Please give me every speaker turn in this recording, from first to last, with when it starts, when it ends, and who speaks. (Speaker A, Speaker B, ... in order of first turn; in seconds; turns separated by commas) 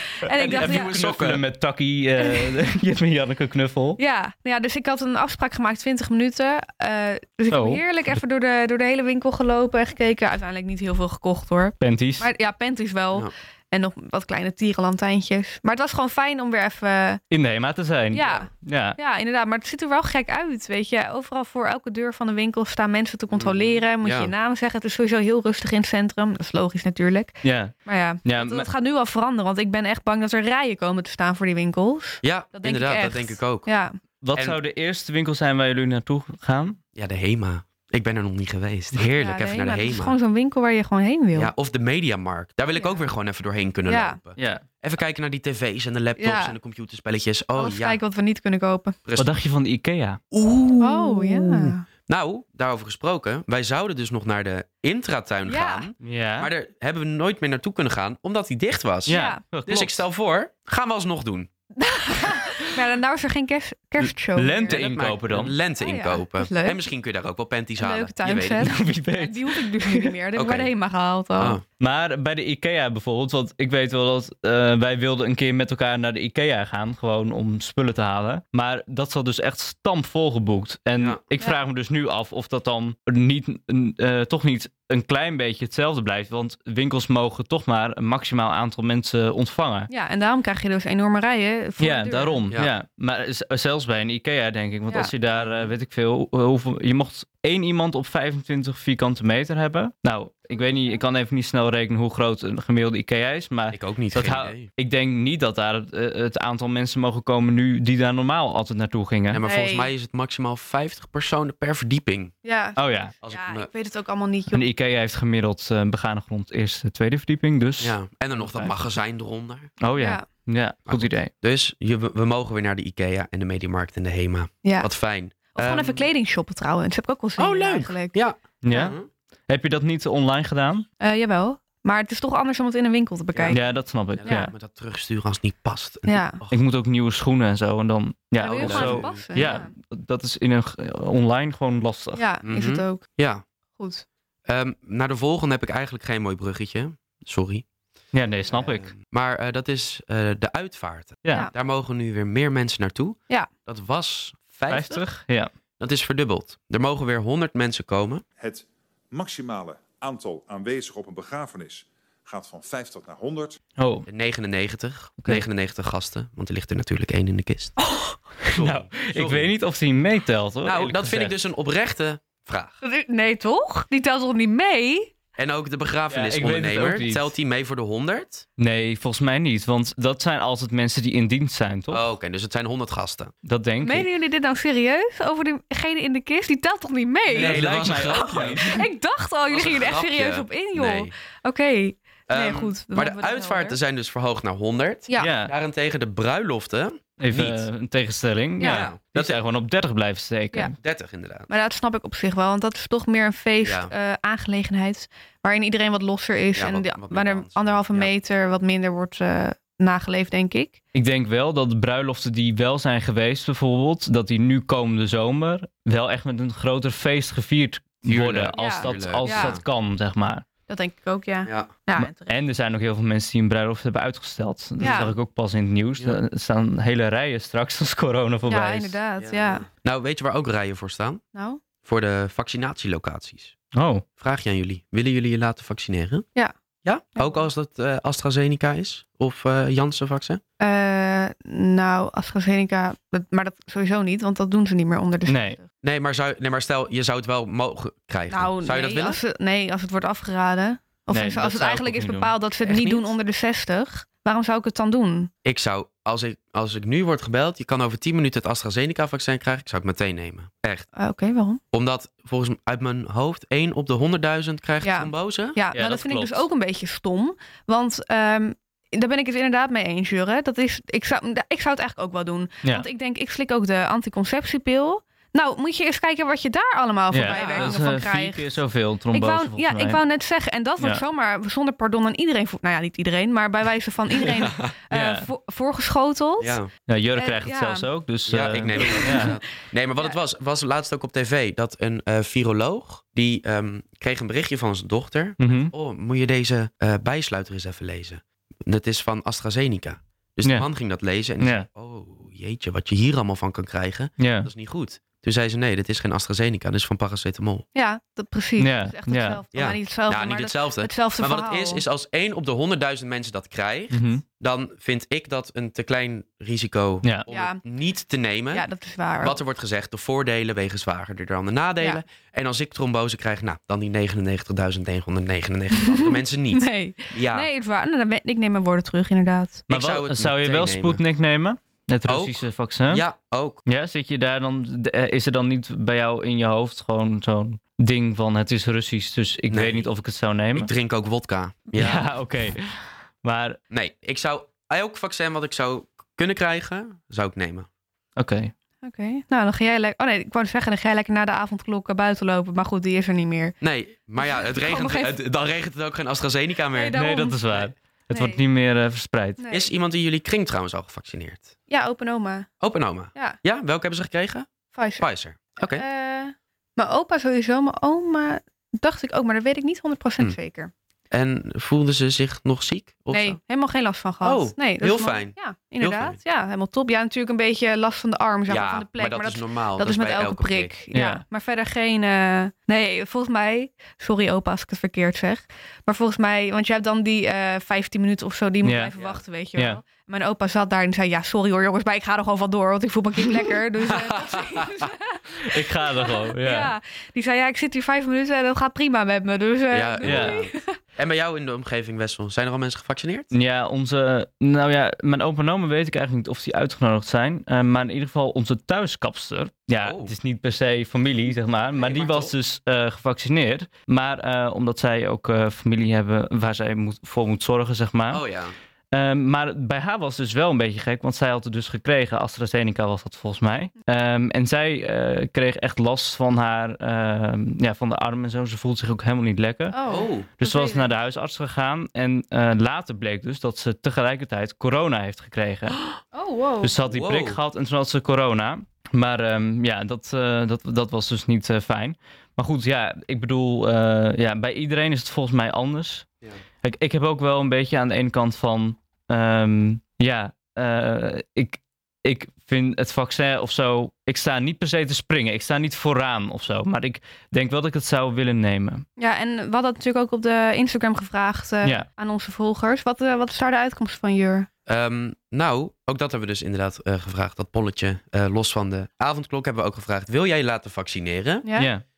Speaker A: 0.2-0.9, Speaker B: 0.4-4.0, Speaker C: 0.5-1.4, Speaker A: 2.2-2.6, Speaker A: 4.0-17.2, Speaker B: 7.5-8.2, Speaker B: 11.8-12.3, Speaker B: 17.3-19.0, Speaker A: 18.1-33.9, Speaker C: 23.3-24.3, Speaker B: 27.4-28.7, Speaker C: 32.2-33.7, Speaker B: 34.2-36.8, Speaker C: 36.9-40.1, Speaker A: 39.1-41.5, Speaker C: 41.3-48.0, Speaker A: 42.7-43.0, Speaker A: 43.9-44.2, Speaker B: 44.4-44.6, Speaker A: 46.2-46.6, Speaker A: 47.5-49.0, Speaker C: 49.0-49.3, Speaker B: 49.2-50.2, Speaker C: 50.3-61.5, Speaker A: 50.8-51.8, Speaker A: 55.5-55.9, Speaker B: 56.0-56.5, Speaker B: 59.0-60.0, Speaker A: 59.1-59.4, Speaker A: 61.8-64.8, Speaker B: 64.0-65.5, Speaker C: 64.7-68.7, Speaker A: 65.8-66.8, Speaker A: 67.8-71.6, Speaker B: 68.6-70.1, Speaker C: 70.3-70.7, Speaker C: 71.4-71.6, Speaker B: 71.8-89.9, Speaker A: 89.9-92.5, Speaker B: 91.8-109.4, Speaker C: 95.3-95.7, Speaker A: 100.5-101.0, Speaker C: 103.7-104.7, Speaker C: 109.3-112.3, Speaker A: 109.4-109.9, Speaker A: 112.4-114.6, Speaker B: 112.8-113.1, Speaker C: 113.2-113.7, Speaker B: 114.5-118.7, Speaker C: 117.8-119.7, Speaker B: 119.8-121.3, Speaker A: 120.0-120.2, Speaker C: 120.9-126.0, Speaker A: 124.6-124.9, Speaker A: 125.5-128.1, Speaker C: 127.4-129.1, Speaker B: 128.6-128.9, Speaker B: 129.5-130.8, Speaker A: 131.0-133.6, Speaker C: 133.3-133.6, Speaker B: 133.5-134.5, Speaker C: 134.1-136.5, Speaker A: 134.2-134.5, Speaker A: 136.1-136.4, Speaker B: 136.5-142.2, Speaker A: 138.4-139.7, Speaker C: 138.5-139.6, Speaker A: 142.1-143.0, Speaker C: 142.4-143.4, Speaker A: 143.8-144.0, Speaker C: 144.4-147.7, Speaker B: 148.1-148.9, Speaker C: 148.5-155.0, Speaker B: 151.2-151.5, Speaker B: 154.7-155.5, Speaker C: 155.8-158.2, Speaker D: 158.4-163.6, Speaker B: 163.8-164.1, Speaker C: 164.1-167.7, Speaker A: 167.8-168.2, Speaker B: 168.4-171.3, Speaker C: 168.5-169.5, Speaker C: 170.6-172.8, Speaker A: 172.8-175.1, Speaker C: 175.3-178.4, Speaker B: 176.1-177.3, Speaker B: 178.6-182.0, Speaker C: 181.9-183.3, Speaker B: 183.4-184.1, Speaker A: 183.8-193.8, Speaker B: 187.3-188.8, Speaker C: 187.3-188.8, Speaker C: 189.5-191.1, Speaker C: 192.3-197.7, Speaker B: 195.2-195.5, Speaker B: 197.2-200.7, Speaker A: 198.6-198.9, Speaker C: 198.6-199.4, Speaker C: 200.8-201.5, Speaker A: 201.5-210.8, Speaker C: 203.6-203.9, Speaker C: 206.6-208.1, Speaker B: 210.9-220.4, Speaker C: 218.1-219.6, Speaker A: 218.5-219.6, Speaker A: 220.7-222.4, Speaker C: 221.4-221.7, Speaker B: 221.9-229.0, Speaker A: 224.8-225.1, Speaker C: 224.8-225.1, Speaker A: 228.5-229.7, Speaker C: 229.2-231.2, Speaker A: 231.3-231.6, Speaker C: 231.8-233.5, Speaker B: 233.7-234.0, Speaker C: 234.2-236.3, Speaker C: 236.8-240.4, Speaker A: 237.1-237.5, Speaker A: 240.6-245.7, Speaker B: 245.2-245.6, Speaker C: 245.8-249.2, Speaker A: 248.3-255.3, Speaker B: 251.1-252.3, Speaker C: 252.6-253.0, Speaker C: 255.4-260.9, Speaker A: 260.9-261.6, Speaker C: 261.7-265.6, Speaker A: 264.8-278.6, Speaker B: 265.7-266.4, Speaker B: 277.1-280.0, Speaker C: 277.3-277.8, Speaker A: 279.1-286.6, Speaker C: 284.4-284.7, Speaker B: 284.9-285.3, Speaker C: 286.4-286.7, Speaker B: 286.9-289.3, Speaker A: 287.1-287.9, Speaker C: 288.3-307.6, Speaker A: 288.7-289.4, Speaker B: 295.4-295.7, Speaker B: 301.4-301.7, Speaker B: 304.2-304.5, Speaker A: 307.7-311.8, Speaker B: 308.6-309.4, Speaker C: 309.5-318.6, Speaker B: 313.9-314.2, Speaker A: 317.3-317.6, Speaker A: 318.5-319.4, Speaker C: 319.2-327.5, Speaker A: 325.8-329.6, Speaker C: 329.7-331.0, Speaker B: 329.7-333.0, Speaker C: 332.1-333.6, Speaker B: 333.6-340.7, Speaker C: 339.5-339.9, Speaker C: 340.5-342.1, Speaker B: 341.7-343.6, Speaker C: 343.7-347.7, Speaker B: 348.2-348.5, Speaker A: 348.8-353.6, Speaker C: 353.6-357.7, Speaker A: 354.2-355.1, Speaker A: 356.7-357.4, Speaker B: 356.9-359.4, Speaker A: 358.1-358.4, Speaker A: 359.4-359.7, Speaker C: 359.5-361.5, Speaker A: 361.7-362.5, Speaker C: 362.6-365.8, Speaker A: 364.7-365.1, Speaker A: 365.7-370.7, Speaker C: 371.1-373.4, Speaker A: 373.1-400.8, Speaker C: 374.2-376.2, Speaker C: 378.5-380.7, Speaker B: 380.9-381.2, Speaker B: 388.6-388.9, Speaker C: 388.9-389.2, Speaker B: 389.6-389.8, Speaker C: 393.8-394.9, Speaker B: 395.5-396.7, Speaker C: 399.7-403.3, Speaker B: 400.0-400.4, Speaker B: 403.3-418.2, Speaker C: 409.8-410.1, Speaker C: 411.8-412.3, Speaker C: 418.1-418.5, Speaker B: 418.9-429.8, Speaker A: 429.7-430.9, Speaker C: 429.9-430.3, Speaker B: 430.4-435.8, Speaker A: 436.1-436.7, Speaker B: 436.6-446.1, Speaker C: 436.9-437.4, Speaker B: 446.6-458.8, Speaker A: 459.0-464.5, Speaker C: 464.7-471.4, Speaker A: 471.4-471.7, Speaker B: 471.6-471.8